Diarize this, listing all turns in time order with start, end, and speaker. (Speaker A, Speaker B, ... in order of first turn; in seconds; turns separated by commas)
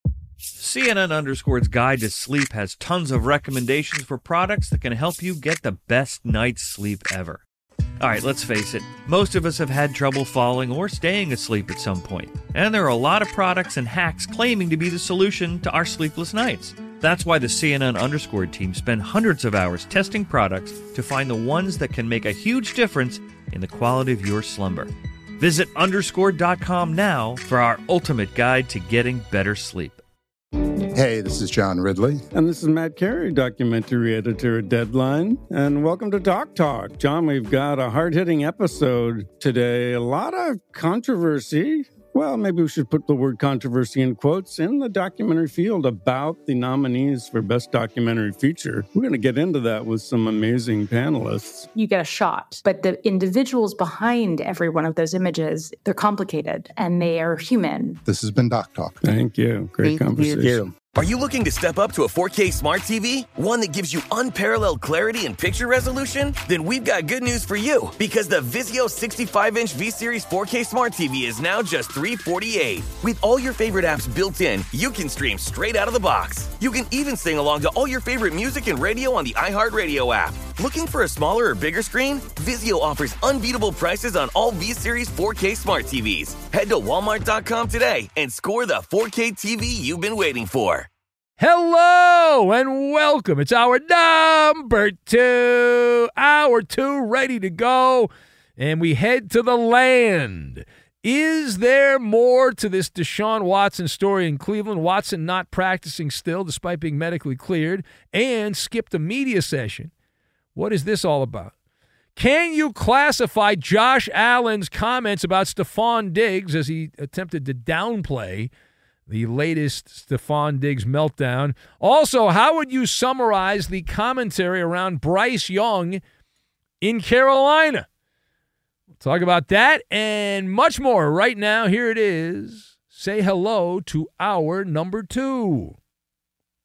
Speaker A: 0.6-7.4, Speaker A: 8.0-30.0, Speaker B: 30.9-32.3, Speaker C: 32.3-51.7, Speaker D: 51.8-58.0, Speaker B: 58.0-59.2, Speaker C: 59.0-60.7, Speaker B: 59.8-60.7, Speaker E: 61.0-90.9, Speaker F: 91.4-109.9, Speaker F: 110.5-111.5, Speaker F: 112.2-118.5, Speaker F: 119.1-126.0, Speaker F: 126.8-127.9, Speaker F: 129.0-135.8